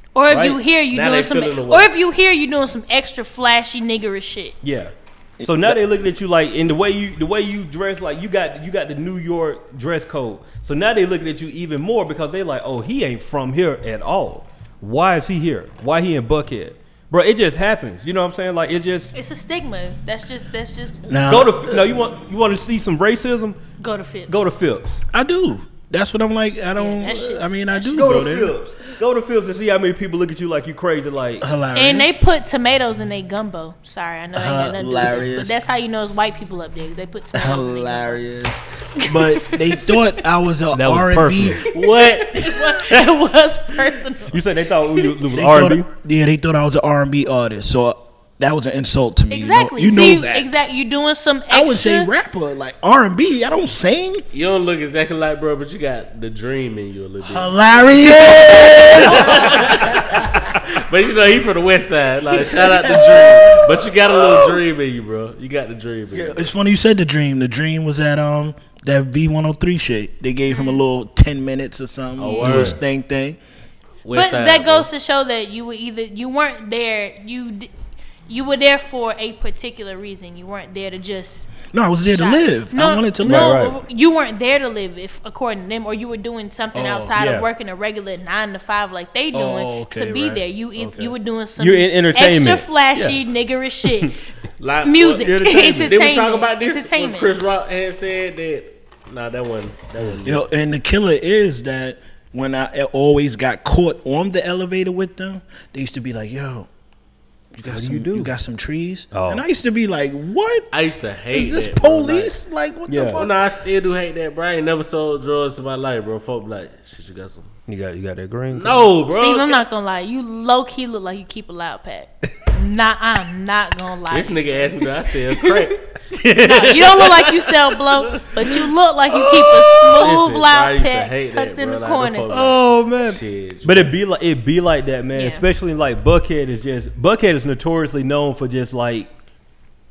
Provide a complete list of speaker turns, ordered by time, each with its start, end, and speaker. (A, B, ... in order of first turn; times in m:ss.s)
0:00.1-0:04.6 A
0:00.3-0:01.9 B
0:04.6-0:19.1 C
0:05.4-0:05.8 D
0:19.1-0:21.1 A
0:21.1-0:21.9 D
0:21.2-0:23.6 C
0:23.8-0:24.4 A
0:24.3-0:25.0 C
0:25.1-0:28.6 D
0:26.7-0:28.2 A
0:27.9-0:31.4 C
0:31.4-0:32.2 D
0:31.7-0:38.2 A
0:34.3-0:35.6 D
0:37.3-0:41.7 D
0:39.0-0:39.9 A
0:40.7-0:41.6 C
0:41.7-0:42.9 B
0:41.8-0:44.4 A
0:44.3-0:45.9 C
0:45.3-0:50.7 D
0:49.3-0:52.1 A
0:51.5-0:54.2 D
0:54.3-1:06.5 B
0:57.2-1:00.6 D
0:59.1-0:59.5 A
1:02.3-1:04.6 D
1:06.1-1:13.4 D
1:10.5-1:10.8 A
1:12.2-1:12.8 B
1:12.2-1:12.6 A
1:12.4-1:12.8 C
1:14.0-1:14.9 B
1:14.1-1:17.7 A
1:18.3-1:34.3 A
1:21.7-1:23.7 D
1:23.2-1:23.8 C
1:26.7-1:27.1 D
1:27.1-1:27.5 C
1:29.3-1:30.4 D
1:31.6-1:33.2 C
1:33.8-1:34.1 C
1:34.6-1:40.5 B
1:34.8-1:37.3 A
1:40.2-1:46.7 D
1:47.5-1:50.7 D
1:47.7-1:48.3 C
1:49.1-1:49.4 C
1:50.7-1:52.4 B
1:51.3-1:53.5 D
1:52.9-1:53.2 C
1:53.2-1:57.5 B
1:57.7-1:58.9 C
1:58.5-1:59.6 B
1:59.1-2:04.8 A
2:04.1-2:08.6 B
2:06.4-2:12.3 A
2:09.3-2:13.9 B
2:12.3-2:19.1 C
2:15.1-2:15.4 A